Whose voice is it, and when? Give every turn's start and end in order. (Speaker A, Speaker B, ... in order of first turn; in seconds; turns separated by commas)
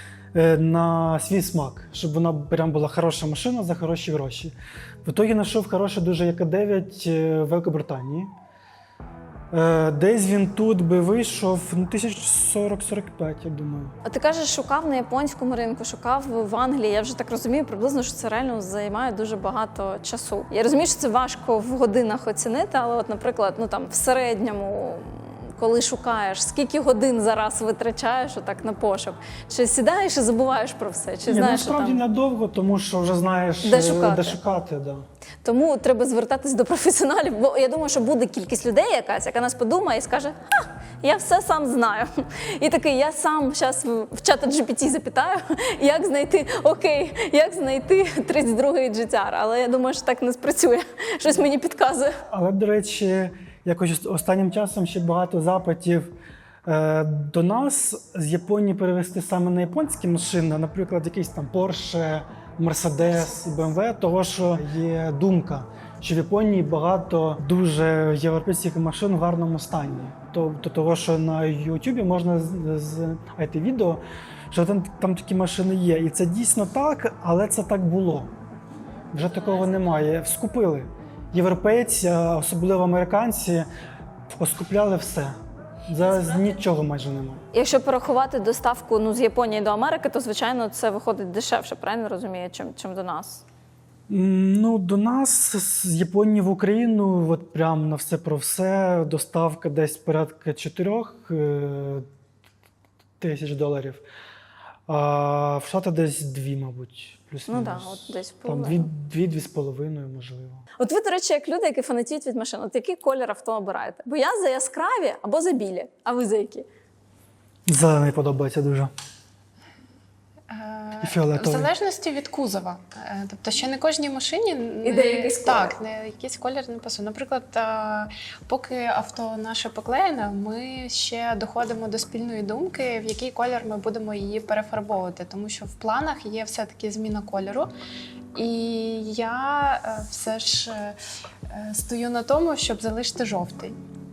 Speaker A: 0.3-8.3, Speaker A: 9.5-13.9, Speaker B: 14.0-32.0, Speaker A: 31.3-35.0, Speaker B: 33.6-34.4, Speaker B: 35.4-52.2, Speaker A: 52.3-56.1, Speaker A: 56.6-78.3, Speaker A: 79.1-83.7, Speaker A: 84.3-85.3, Speaker A: 85.9-87.4, Speaker B: 87.5-93.4, Speaker A: 94.1-102.0, Speaker A: 103.2-104.0, Speaker A: 104.9-110.6, Speaker B: 107.5-108.9, Speaker B: 110.8-116.7, Speaker A: 117.7-118.9, Speaker C: 120.5-137.7, Speaker A: 121.0-121.7, Speaker B: 124.8-125.7, Speaker C: 138.3-143.8